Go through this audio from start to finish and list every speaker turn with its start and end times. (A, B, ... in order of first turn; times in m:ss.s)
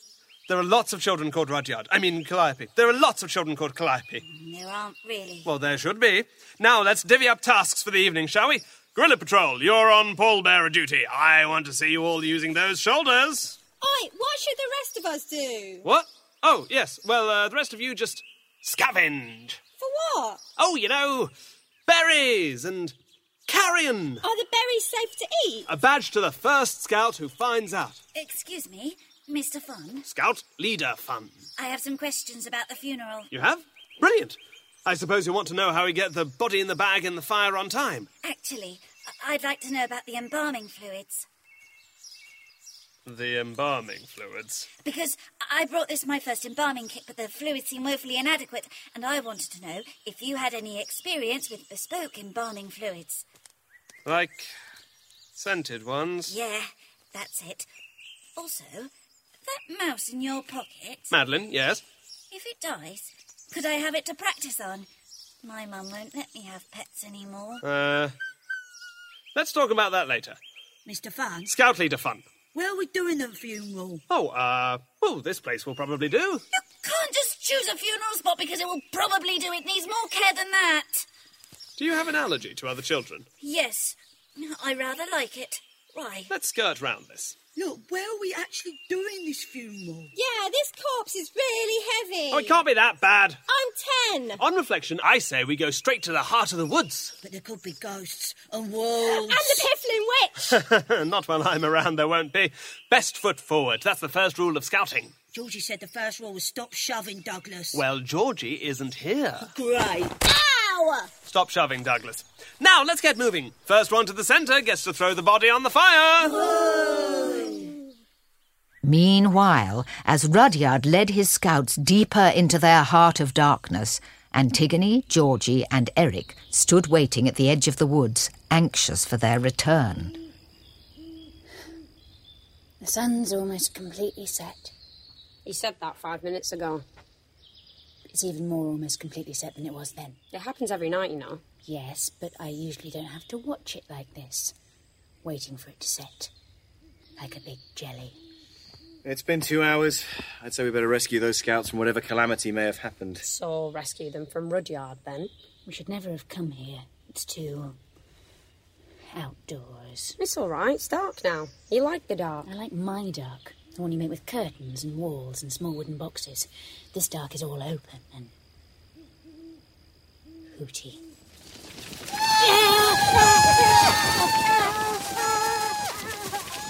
0:00.5-0:04.2 A
0:04.2-0:05.5 B
0:05.4-0:13.6 A
0:13.8-0:15.9 C
0:15.8-0:19.6 A
0:19.8-0:20.4 C
0:20.6-0:21.3 A
0:21.9-0:23.0 A
0:23.5-0:24.2 A
0:24.2-0:25.7 C
0:25.7-0:28.0 A
0:28.1-0:30.1 B
0:30.1-0:31.5 A
0:31.6-0:33.3 B
0:33.3-0:38.1 A
0:38.2-0:41.3 B
0:43.1-0:44.7 A
0:44.8-0:53.2 B
0:54.1-0:54.5 A
0:55.4-0:56.4 A
0:56.3-0:57.7 B
0:58.4-0:58.9 B
0:59.4-1:01.1 B
1:01.1-1:01.8 A
1:02.3-1:04.9 B
1:05.4-1:07.6 B
1:07.6-1:08.1 A
1:09.4-1:10.4 A
1:10.8-1:11.6 D
1:11.5-1:12.3 A
1:12.5-1:14.0 D
1:14.1-1:16.4 A
1:16.6-1:21.1 B
1:21.8-1:23.3 A
1:23.4-1:26.3 B
1:26.3-1:27.4 A
1:27.6-1:30.1 D
1:30.2-1:32.6 C
1:32.3-1:33.4 A
1:33.5-1:34.4 C
1:34.4-1:37.2 A
1:37.2-1:39.7 D
1:39.0-1:40.4 C
1:40.5-1:45.2 A
1:45.3-1:47.8 D
1:47.7-1:49.5 A
1:49.5-1:50.4 D
1:50.3-1:51.0 C
1:51.3-1:56.4 A
1:56.2-1:57.7 D
1:58.8-2:10.2 E
2:12.8-2:14.7 F
2:15.4-2:16.8 G
2:18.1-2:20.2 F
2:20.3-2:21.4 G
2:21.7-2:24.6 F
2:25.2-2:26.3 F
2:27.2-2:28.2 F
2:29.0-2:33.3 H
2:33.2-2:35.3 G
2:35.7-2:37.8 F
2:39.1-2:40.2 F
2:40.2-2:42.5 G
2:42.4-2:48.3 F
2:50.6-2:51.0 F
2:52.4-2:54.3 F